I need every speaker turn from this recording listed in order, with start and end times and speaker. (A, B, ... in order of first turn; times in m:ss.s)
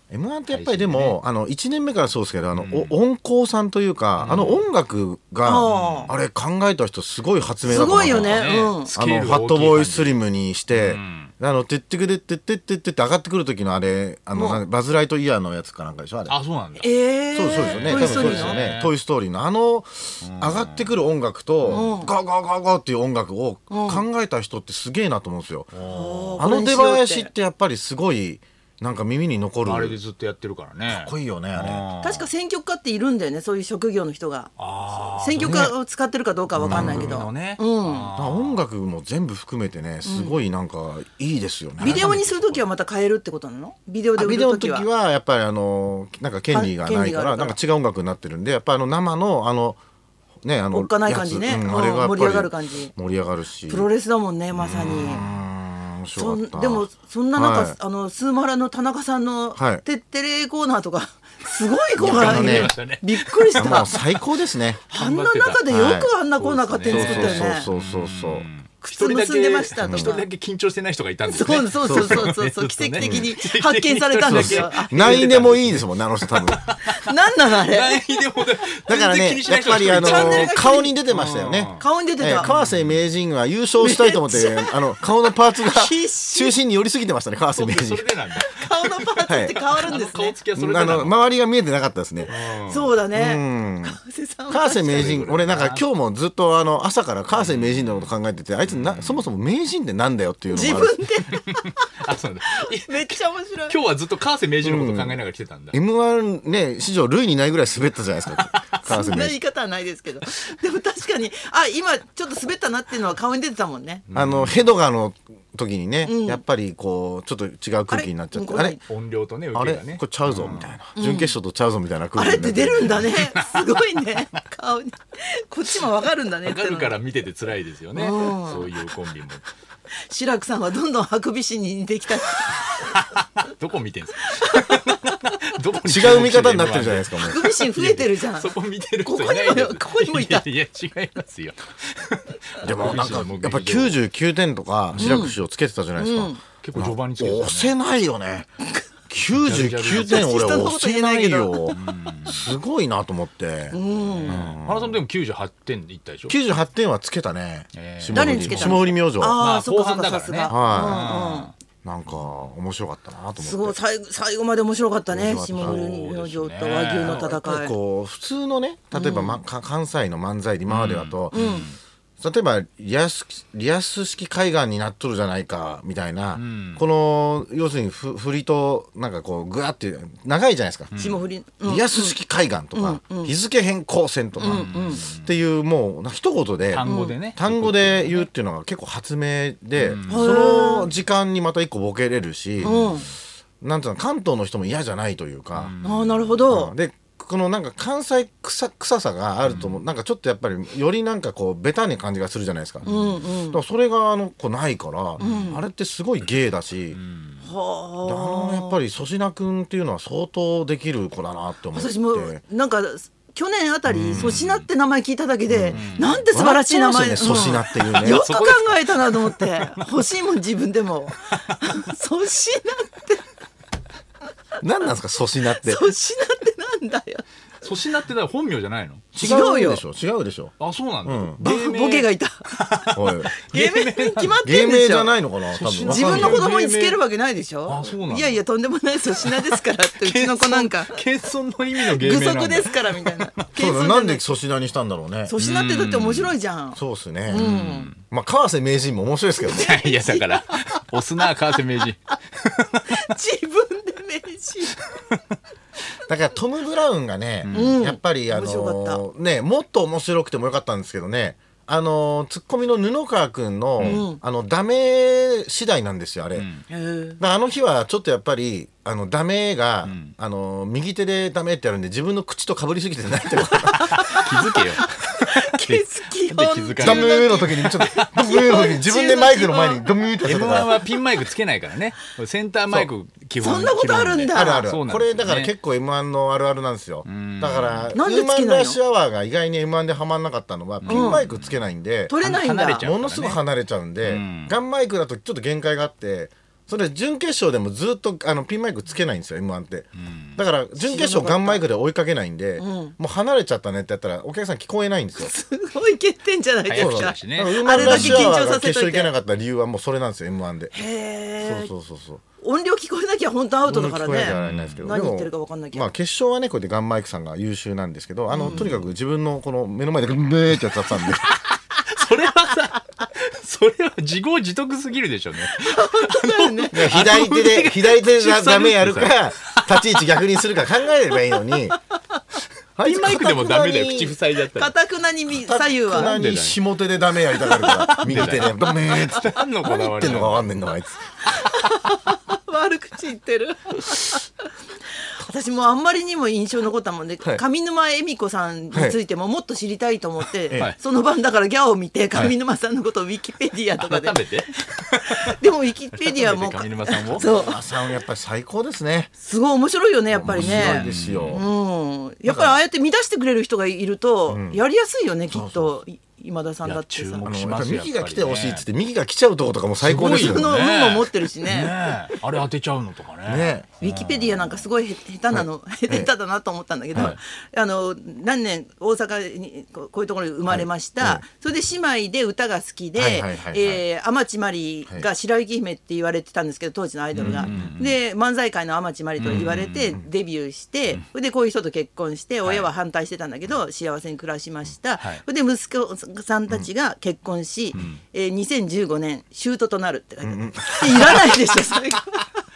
0:00.1-0:16.4 A
0:00.5-0:01.2 B
0:02.5-0:03.0 B
0:04.2-0:04.6 B
0:05.4-0:06.1 C
0:05.7-0:06.1 B
0:07.6-0:10.2 B
0:07.7-0:08.9 C
0:10.7-0:11.3 B
0:14.3-0:14.6 C
0:16.3-0:16.9 B
0:16.8-0:18.6 C
0:17.3-0:25.7 A
0:17.5-0:18.9 B
0:20.2-0:21.0 B
0:21.6-0:21.9 B
0:21.7-0:22.1 C
0:23.7-0:24.0 C
0:25.7-0:26.4 B
0:25.8-0:27.3 C
0:26.4-0:30.0 A
0:29.6-0:32.3 B
0:30.9-0:31.8 A
0:32.0-0:38.1 C
0:34.6-0:35.7 B
0:35.4-0:35.7 A
0:36.6-0:37.2 A
0:36.6-0:38.6 B
0:38.1-0:42.6 A
0:40.0-0:40.4 C
0:41.8-0:44.9 C
0:41.8-0:42.2 B
0:44.2-0:49.8 A
0:46.5-0:47.6 C
0:50.4-0:53.9 A
0:50.7-0:52.9 C
0:53.7-0:55.2 C
0:54.5-0:57.8 A
0:55.0-0:55.4 B
0:56.1-1:04.0 C
0:59.6-0:59.8 A
1:01.9-1:04.1 B
1:02.0-1:02.7 A
1:03.6-1:04.8 A
1:04.9-1:21.8 B
1:04.9-1:07.7 C
1:05.7-1:06.1 A
1:06.9-1:08.4 A
1:08.8-1:10.2 C
1:09.8-1:10.1 A
1:11.2-1:15.3 C
1:11.8-1:12.3 A
1:13.0-1:13.3 A
1:14.2-1:16.6 A
1:16.9-1:18.0 C
1:18.9-1:28.1 A
1:19.9-1:20.9 C
1:21.8-1:22.5 C
1:22.4-1:23.0 B
1:23.8-1:24.8 C
1:25.5-1:26.5 C
1:27.5-1:31.1 B
1:28.4-1:30.4 C
1:29.3-1:29.6 A
1:30.5-1:32.3 A
1:32.3-1:32.9 B
1:32.6-1:35.2 C
1:33.1-1:34.0 A
1:34.5-1:40.9 A
1:34.9-1:35.8 B
1:37.3-1:38.1 B
1:38.6-1:39.2 B
1:40.5-1:41.9 C
1:41.3-1:45.8 B
1:42.5-1:43.8 C
1:44.6-1:45.2 A
1:45.7-1:49.4 A
1:48.8-1:54.0 C
1:54.1-1:54.6 B
1:54.1-1:58.8 A
1:56.0-1:56.4 C
1:57.9-1:58.8 C
1:58.9-2:00.7 B
1:59.5-2:03.1 A
2:01.0-2:01.3 C
2:02.2-2:07.0 C
2:03.0-2:04.2 B
2:06.4-2:09.4 B
2:07.9-2:08.7 C
2:10.1-2:12.9 C
2:12.3-2:24.0 B
2:14.3-2:15.0 C
2:15.8-2:17.4 A
2:17.2-2:20.4 C
2:22.6-2:28.5 A
2:24.9-2:25.3 B
2:25.0-2:25.3 C
2:26.0-2:26.4 C
2:26.6-2:27.7 B
2:29.1-2:35.0 A
2:29.3-2:30.5 B
2:30.0-2:31.8 C
2:31.7-2:32.5 B
2:33.7-2:34.4 C
2:34.2-2:36.4 B
2:36.3-2:39.4 A
2:37.7-2:41.5 B
2:38.1-2:41.5 C
2:40.5-2:43.8 A
2:43.4-2:47.7 C
2:45.1-2:45.8 A
2:45.6-2:47.3 B
2:47.0-2:51.6 A
2:48.9-2:49.4 C
2:50.7-2:51.8 B
2:51.3-2:51.7 C
2:52.2-3:01.0 A
2:56.3-2:56.8 B
3:00.9-3:01.2 B
3:01.0-3:02.2 C
3:01.6-3:12.8 A
3:02.7-3:03.3 C
3:04.4-3:05.0 C
3:04.4-3:05.3 B
3:06.7-3:08.3 B
3:06.8-3:07.2 C
3:09.8-3:10.4 B
3:10.1-3:10.9 C
3:12.6-3:13.0 B
3:12.6-3:13.1 C
3:13.6-3:15.7 A
3:15.5-3:16.4 B
3:15.8-3:16.7 C
3:16.5-3:22.9 A
3:19.4-3:19.8 B
3:22.8-3:23.2 B
3:22.8-3:23.6 C
3:23.5-3:27.0 A
3:25.2-3:25.5 B
3:25.2-3:25.6 C
3:26.9-3:27.5 B
3:27.4-3:28.8 C
3:28.0-3:32.4 A
3:31.7-3:43.2 C
3:33.9-3:34.4 A
3:34.1-3:34.7 B
3:35.5-3:38.2 A
3:35.7-3:36.2 B
3:37.7-3:39.9 B
3:44.6-3:45.8 A
3:45.5-3:47.2 C
3:47.6-3:49.1 B
3:49.1-3:50.5 A
3:49.2-3:49.8 C
3:50.6-3:54.4 B
3:51.0-3:51.4 A
3:51.4-3:52.4 C
3:52.9-3:53.3 A
3:53.5-3:55.2 C
3:54.4-3:56.4 A
3:55.5-3:57.0 B
3:55.8-4:01.0 C
3:57.6-3:58.4 B
3:59.1-4:03.5 B
4:01.8-4:04.2 C
4:03.5-4:05.3 A
4:05.3-4:07.9 C
4:05.4-4:06.4 B
4:06.8-4:07.4 A
4:07.3-4:08.0 B
4:08.1-4:09.7 A
4:09.4-4:11.2 C
4:09.5-4:13.0 B
4:12.8-4:14.7 C
4:16.1-4:26.5 A
4:17.4-4:17.8 B
4:17.5-4:19.0 C
4:23.8-4:24.0 B
4:23.8-4:24.2 C
4:26.3-4:26.6 B
4:26.7-4:27.2 C
4:27.2-4:34.1 A
4:29.8-4:30.1 B
4:33.6-4:34.6 C
4:33.9-4:38.2 B
4:35.2-4:39.8 C
4:36.8-4:40.8 A
4:40.2-4:45.5 B
4:43.4-4:44.6 C
4:44.3-4:52.1 A
4:47.0-4:47.9 B
4:47.9-4:48.8 C
4:50.8-4:51.6 B
4:50.9-4:51.2 C
4:52.1-4:52.8 C
4:52.2-4:53.4 B
4:52.8-5:05.3 A
4:54.0-4:54.6 B
5:00.0-5:00.4 B
5:00.8-5:01.6 C
5:02.6-5:03.0 C
5:05.2-5:09.1 C
5:06.6-5:08.4 B
5:06.8-5:10.8 A
5:10.7-5:11.7 C
5:11.4-5:12.2 A
5:12.4-5:15.9 C
5:13.6-5:21.3 A
5:14.3-5:14.8 B
5:18.3-5:18.7 C
5:18.5-5:18.8 B
5:21.0-5:30.1 B
5:25.5-5:26.8 C
5:26.7-5:31.8 A
5:32.8-5:34.2 A
5:32.8-5:34.7 B
5:34.5-5:36.1 C
5:35.4-5:41.1 A
5:35.9-5:36.6 B
5:37.4-5:40.5 B
5:41.3-5:44.5 C
5:45.2-5:54.2 C
5:48.7-5:49.0 A
5:50.5-5:50.8 B
5:53.8-5:55.4 B
5:55.1-5:57.6 C
5:55.9-5:57.5 B
5:57.1-5:59.1 A
5:59.2-6:07.3 C
6:00.1-6:01.5 A
6:00.3-6:01.4 B
6:02.2-6:02.6 A
6:04.3-6:04.6 A
6:05.3-6:05.7 A
6:06.6-6:08.6 B
6:07.2-6:10.6 A
6:09.8-6:14.5 B
6:09.9-6:11.8 C
6:13.2-6:13.7 A
6:13.8-6:42.3 C
6:15.3-6:16.1 A
6:20.5-6:21.2 A
6:23.0-6:23.8 A
6:27.1-6:28.0 B
6:27.2-6:27.7 A
6:29.2-6:30.0 B
6:37.7-6:38.0 B
6:40.2-6:41.2 A